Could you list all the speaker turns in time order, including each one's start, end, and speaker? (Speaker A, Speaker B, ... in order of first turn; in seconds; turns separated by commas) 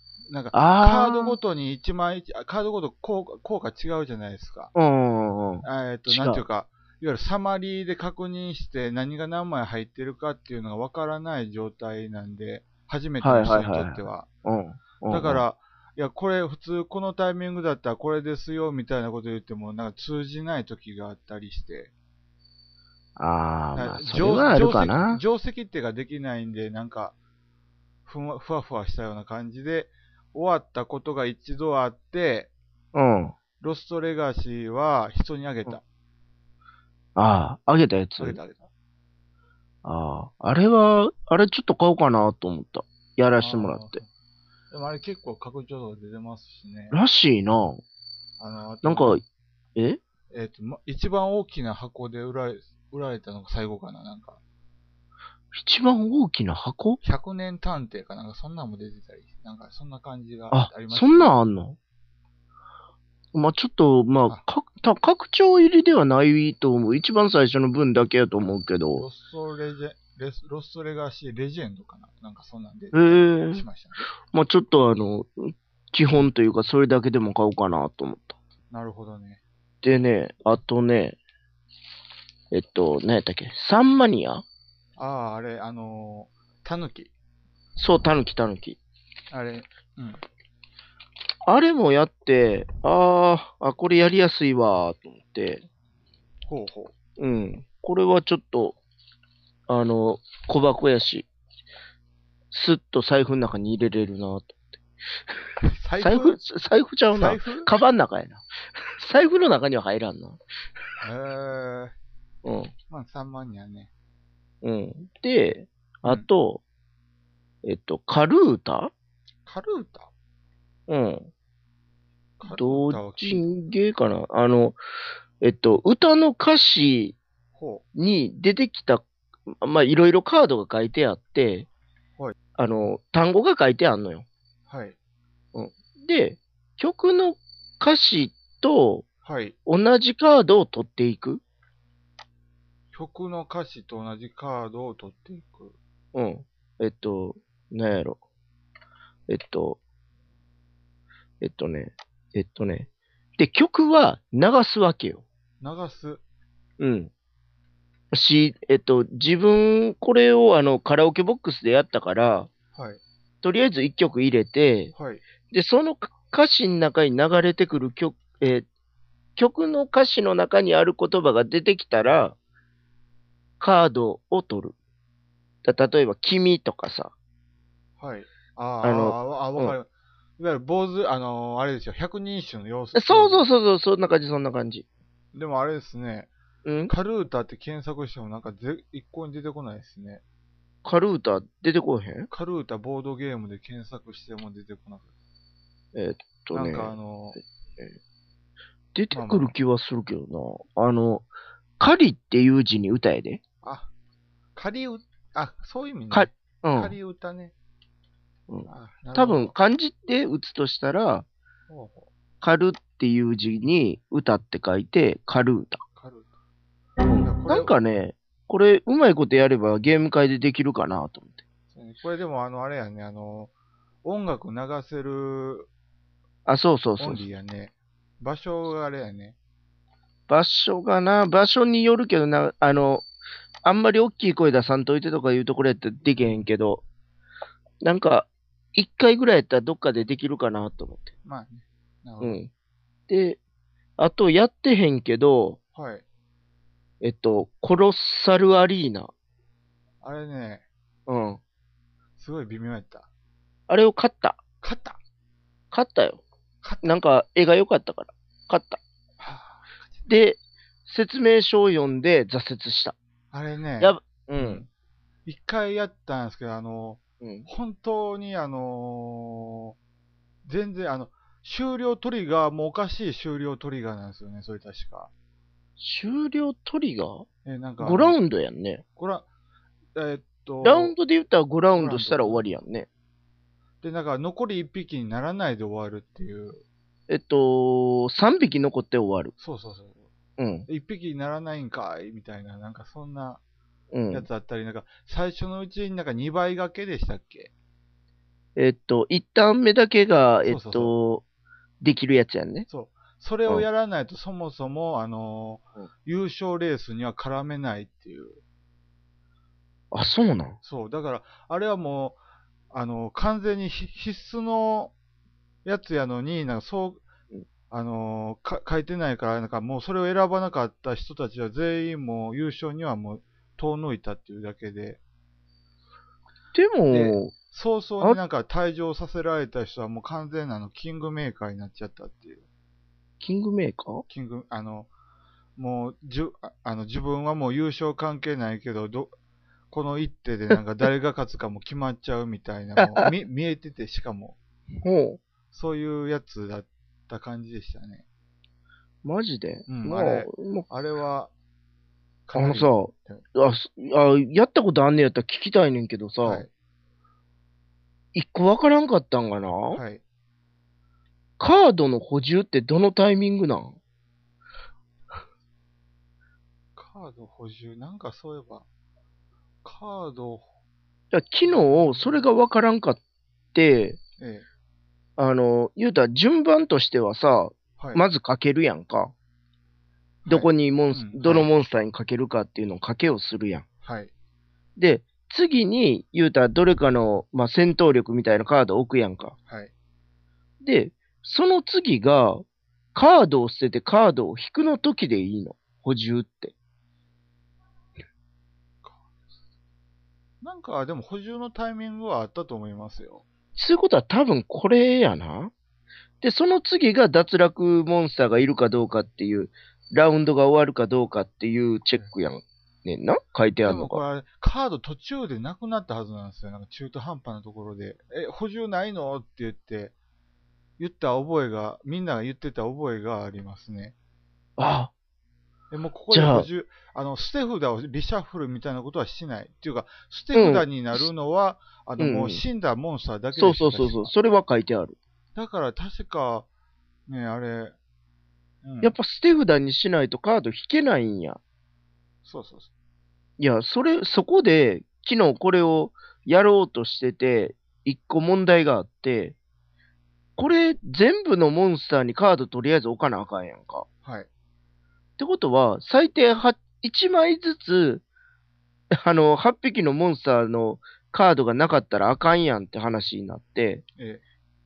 Speaker A: 0.3-4.7, Speaker B: 0.5-1.4, Speaker B: 4.8-6.4, Speaker A: 5.6-14.3, Speaker B: 13.2-15.4, Speaker A: 15.1-21.9, Speaker B: 23.2-25.2, Speaker A: 23.7-27.1, Speaker A: 28.1-32.5, Speaker B: 32.9-33.4, Speaker A: 33.6-35.8, Speaker B: 37.2-38.4, Speaker A: 38.2-38.7, Speaker B: 39.8-44.0, Speaker A: 43.4-44.1, Speaker A: 44.7-47.0, Speaker B: 46.9-47.8, Speaker A: 48.4-49.2, Speaker B: 48.8-49.2, Speaker A: 50.3-54.4, Speaker B: 55.5-57.0, Speaker A: 57.0-61.4, Speaker B: 60.5-61.8, Speaker B: 63.3-69.0, Speaker A: 69.0-74.1, Speaker B: 72.9-73.7, Speaker B: 74.3-78.4, Speaker A: 78.7-79.4, Speaker B: 79.8-81.2, Speaker B: 82.5-84.5, Speaker A: 85.0-87.1, Speaker B: 87.8-88.8, Speaker A: 89.3-90.2, Speaker B: 91.5-95.7, Speaker A: 96.5-96.9, Speaker B: 97.2-98.8, Speaker B: 99.7-101.3, Speaker B: 102.5-104.6, Speaker A: 105.6-106.4, Speaker B: 106.0-108.4, Speaker A: 107.1-107.7, Speaker B: 109.0-110.4, Speaker A: 111.0-112.0, Speaker B: 112.4-112.7, Speaker A: 112.9-113.9, Speaker B: 114.6-116.6, Speaker B: 117.6-118.9, Speaker A: 119.5-120.1, Speaker B: 120.9-121.3, Speaker A: 122.4-123.5, Speaker B: 122.5-124.8, Speaker B: 125.4-127.2, Speaker A: 127.5-127.8, Speaker B: 128.0-131.7, Speaker B: 132.6-134.3, Speaker A: 134.7-135.0, Speaker B: 135.5-139.1, Speaker A: 139.2-139.6, Speaker B: 139.7-141.4, Speaker A: 142.9-145.8, Speaker B: 146.1-148.2, Speaker B: 149.3-149.8, Speaker B: 151.4-155.2, Speaker A: 155.6-156.2, Speaker B: 156.8-157.1, Speaker B: 158.1-162.5, Speaker A: 162.8-163.0, Speaker B: 163.4-164.9, Speaker A: 164.9-165.2, Speaker B: 165.5-168.7, Speaker B: 169.4-172.4, Speaker B: 173.6-174.8, Speaker B: 175.6-177.1, Speaker A: 178.0-183.5, Speaker B: 178.8-179.8, Speaker B: 182.9-184.9, Speaker A: 185.3-186.3, Speaker B: 186.7-186.9, Speaker A: 186.9-190.2, Speaker B: 190.8-192.3, Speaker A: 192.3-195.1, Speaker B: 195.9-197.0, Speaker A: 196.5-197.4, Speaker B: 198.9-201.3, Speaker A: 199.1-199.5, Speaker B: 201.8-203.4, Speaker A: 203.6-203.9, Speaker A: 204.6-207.5, Speaker B: 206.1-206.9, Speaker B: 208.5-211.3, Speaker A: 208.7-209.5, Speaker A: 211.7-212.1, Speaker B: 212.4-215.8, Speaker A: 216.0-216.3, Speaker B: 217.0-221.4, Speaker A: 217.2-217.7, Speaker A: 221.7-223.5, Speaker A: 224.0-225.7, Speaker B: 226.5-227.2, Speaker A: 227.0-229.4, Speaker B: 230.3-233.1, Speaker B: 233.6-236.8, Speaker B: 237.8-241.1, Speaker A: 241.2-242.4, Speaker B: 242.2-242.5, Speaker B: 243.1-243.4, Speaker B: 244.0-245.6, Speaker A: 245.8-246.0, Speaker B: 247.0-249.1, Speaker A: 250.0-250.7, Speaker B: 251.1-251.4, Speaker A: 252.2-253.1, Speaker B: 253.7-254.4, Speaker A: 254.6-255.0, Speaker B: 255.7-256.2, Speaker A: 256.6-257.0, Speaker B: 256.8-258.8, Speaker A: 259.2-260.1, Speaker B: 260.1-263.0, Speaker A: 263.3-264.7, Speaker B: 263.8-264.6, Speaker A: 265.3-269.8, Speaker B: 267.2-267.5, Speaker A: 270.4-275.1, Speaker B: 275.8-277.2, Speaker A: 277.4-278.2, Speaker B: 277.8-278.8, Speaker A: 279.0-279.3, Speaker A: 279.9-281.0, Speaker B: 280.6-282.9, Speaker A: 281.8-282.4, Speaker A: 283.8-286.6, Speaker B: 287.1-289.3, Speaker A: 289.4-290.1, Speaker B: 290.4-290.7, Speaker A: 290.7-293.4, Speaker B: 293.9-294.3, Speaker A: 294.1-297.5, Speaker B: 298.6-301.2, Speaker A: 300.4-301.0, Speaker B: 301.8-302.7, Speaker A: 302.7-308.4, Speaker B: 309.9-310.6, Speaker A: 310.6-312.2, Speaker A: 312.7-314.9, Speaker A: 315.6-317.1, Speaker A: 317.7-325.0, Speaker B: 326.5-327.3, Speaker A: 326.9-332.4, Speaker B: 333.2-334.0, Speaker A: 334.1-334.9, Speaker A: 335.6-339.1, Speaker A: 339.7-344.4, Speaker B: 342.8-343.1, Speaker B: 344.8-345.2, Speaker A: 345.5-348.1, Speaker B: 349.0-350.7, Speaker A: 349.7-351.3, Speaker A: 352.3-353.2, Speaker B: 352.4-356.5, Speaker A: 356.2-356.5, Speaker B: 358.1-359.8, Speaker A: 359.7-360.0, Speaker B: 361.4-363.8, Speaker A: 366.8-368.7, Speaker A: 369.6-370.5, Speaker B: 371.1-373.0, Speaker A: 371.4-372.2, Speaker B: 373.5-374.0, Speaker A: 374.2-374.5, Speaker B: 375.2-379.1, Speaker A: 377.8-378.0, Speaker A: 380.2-381.5, Speaker B: 380.3-383.6, Speaker A: 383.8-384.1, Speaker B: 384.8-389.4, Speaker B: 390.6-396.5, Speaker A: 400.4-403.2, Speaker B: 403.6-405.5, Speaker B: 406.2-414.0, Speaker A: 413.6-419.9, Speaker A: 420.8-423.9, Speaker B: 424.6-424.9, Speaker A: 425.7-434.1, Speaker B: 426.1-426.5, Speaker B: 430.3-431.1, Speaker B: 432.0-432.4, Speaker B: 433.3-435.0, Speaker A: 435.4-436.5, Speaker A: 437.1-437.8, Speaker A: 438.6-438.9, Speaker B: 438.8-441.4, Speaker A: 442.2-442.7, Speaker B: 443.4-449.4, Speaker B: 450.4-453.9, Speaker A: 454.0-454.3, Speaker B: 455.2-458.0, Speaker B: 458.9-463.8